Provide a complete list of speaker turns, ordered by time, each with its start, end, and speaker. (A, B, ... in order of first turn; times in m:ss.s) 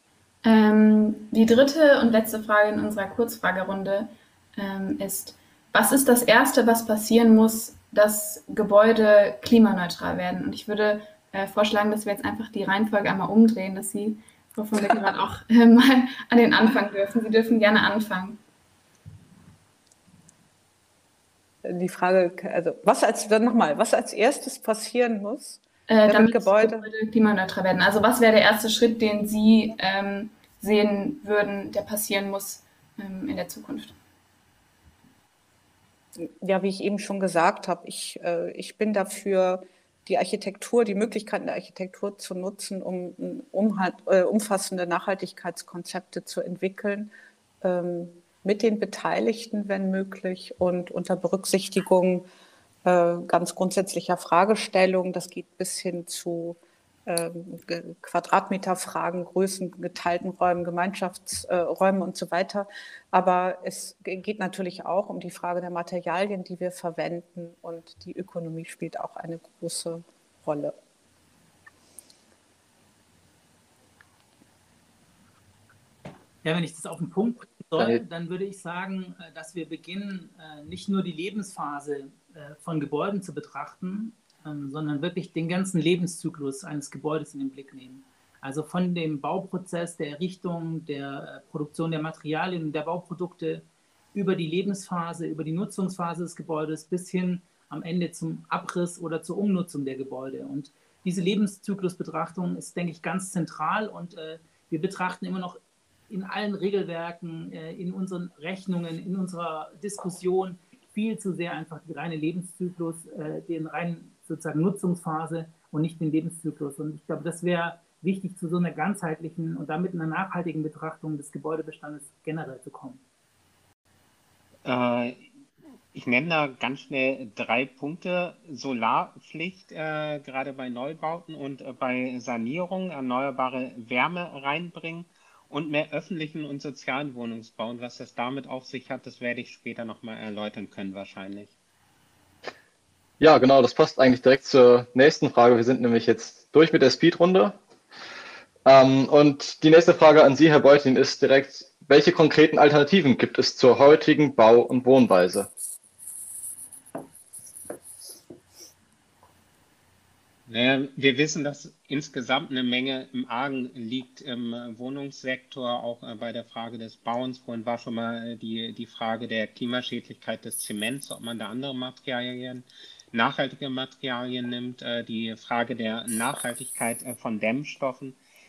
0:00.4-0:18.4 A
0:14.9-0:15.2 B
0:21.6-0:26.9 B
0:25.9-0:34.0 A
0:36.2-0:47.1 B
0:47.6-0:52.2 B
0:52.8-1:10.7 B
1:16.4-2:03.0 C
2:04.6-2:05.2 D
2:05.9-2:21.5 D
2:23.2-2:27.6 E
2:28.6-2:35.5 E
2:40.5-2:58.2 D